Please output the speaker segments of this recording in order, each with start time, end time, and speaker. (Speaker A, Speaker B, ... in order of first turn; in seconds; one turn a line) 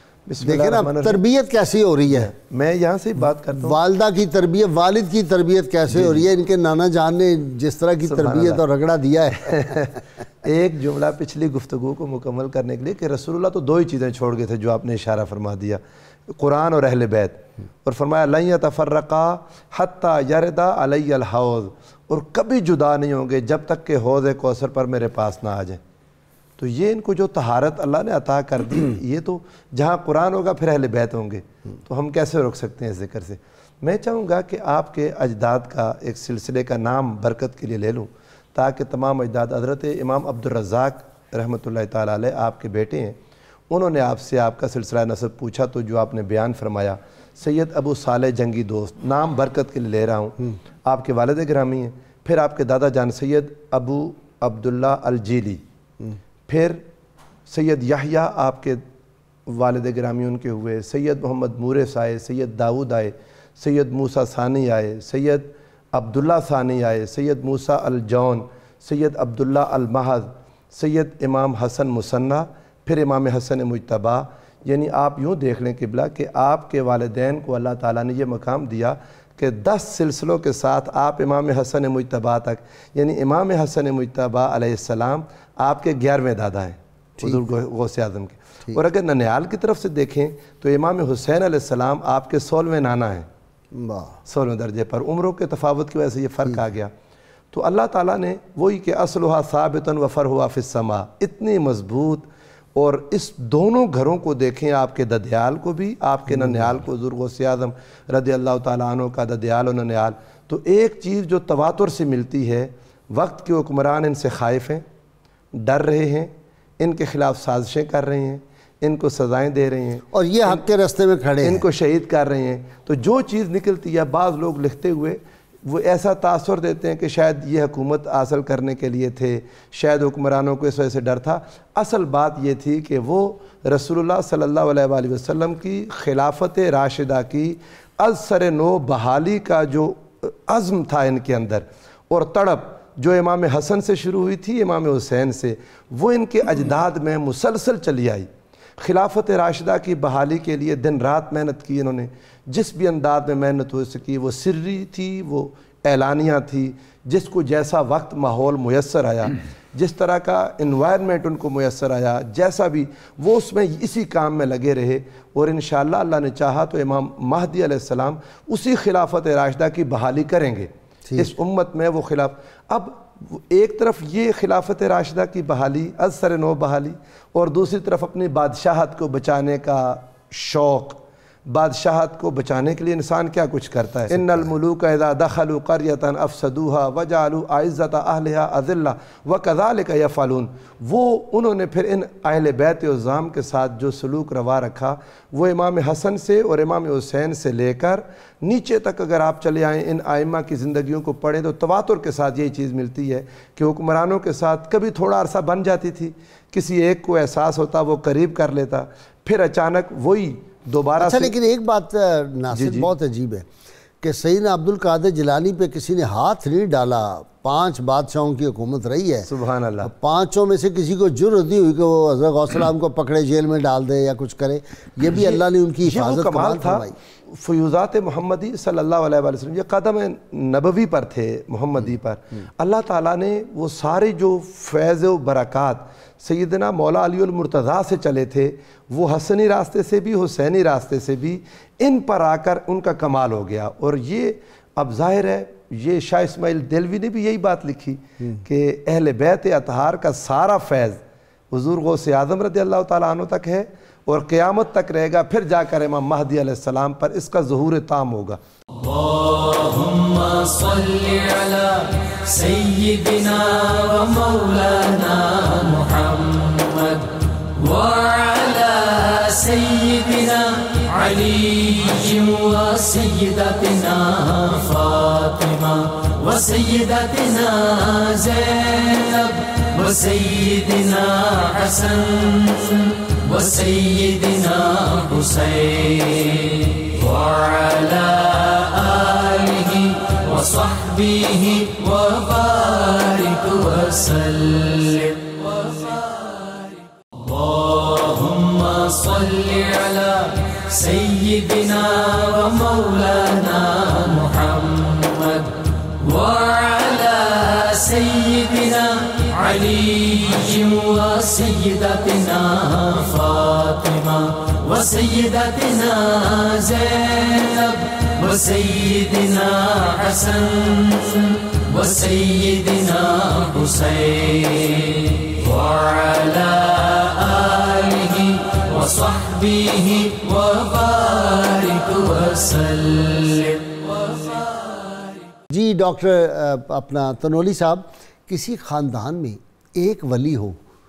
Speaker A: 0.3-1.2
Speaker B: 0.4-2.3
Speaker A: 2.1-3.8
Speaker B: 3.6-9.8
Speaker A: 5.9-6.2
Speaker A: 8.0-8.6
Speaker A: 9.5-25.8
Speaker A: 26.6-43.2
Speaker A: 43.7-55.6
Speaker A: 56.5-56.9
Speaker A: 57.5-58.8
Speaker A: 59.5-93.3
Speaker B: 93.7-94.2
Speaker A: 94.3-96.9
Speaker A: 97.5-114.8
Speaker B: 106.3-106.8
Speaker A: 115.5-120.6
Speaker B: 120.1-121.7
Speaker A: 121.4-148.3
Speaker A: 148.8-211.3
Speaker B: 211.0-213.5
Speaker A: 212.5-212.9
Speaker B: 214.0-219.3
Speaker A: 219.3-219.9
Speaker B: 219.8-227.0
Speaker A: 225.1-258.4
Speaker C: 258.8-334.8
Speaker B: 335.5-340.6